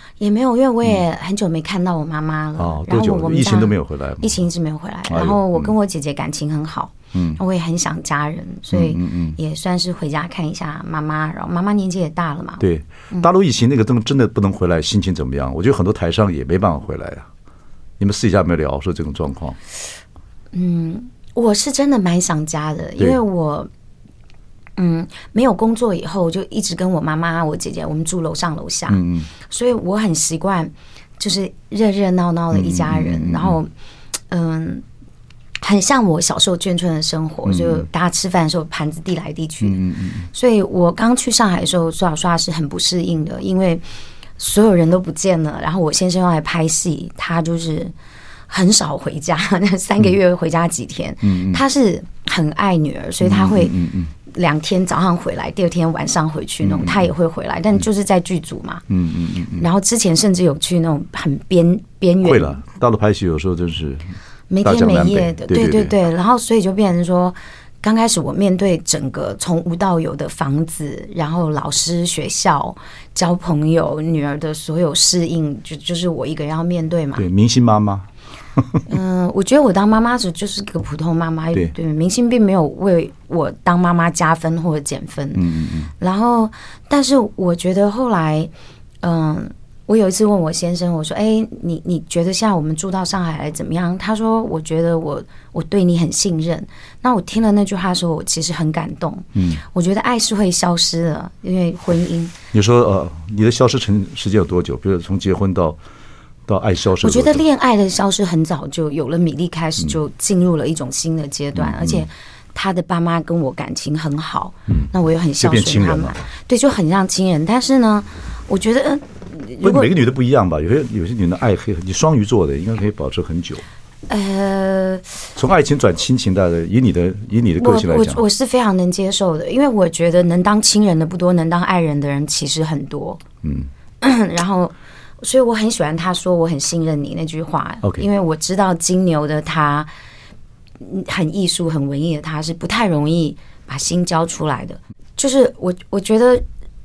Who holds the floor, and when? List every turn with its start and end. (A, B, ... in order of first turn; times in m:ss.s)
0:00.2-0:13.3 A
0:02.6-0:04.4 B
0:05.1-0:05.7 B
0:07.1-0:07.4 B
0:08.7-0:09.4 B
0:12.6-0:17.3 B
0:18.0-0:19.6 B
0:20.5-0:23.7 A
0:24.8-0:33.7 A
0:28.9-0:29.3 B
0:32.5-0:33.6 B
0:34.3-0:34.8 A
0:35.6-0:39.8 A
0:37.4-0:37.8 B
0:39.6-0:40.3 B
0:40.3-0:43.8 A
0:44.4-0:47.9 A
0:48.5-0:58.8 A
0:51.2-0:51.6 B
0:53.2-0:54.1 B
0:56.6-0:57.1 B
0:58.9-0:59.6 B
0:59.6-1:02.6 A
1:02.2-1:04.1 B
1:04.5-1:17.2 A
1:04.6-1:05.9 B
1:17.2-1:18.8 B
1:18.8-1:25.5 A
1:25.3-1:25.9 B
1:26.0-1:28.5 A
1:29.0-1:42.3 A
1:39.3-1:39.6 B
1:42.5-1:45.8 B
1:46.5-1:47.4 B
1:47.0-1:59.9 A
1:51.5-1:52.0 B
1:55.4-1:56.2 B
1:59.6-2:03.6 B
2:04.1-2:05.2 A
2:05.4-2:08.2 B
2:07.6-2:13.2 A
2:13.4-2:13.7 B
2:14.0-2:19.9 A
2:20.8-2:26.4 A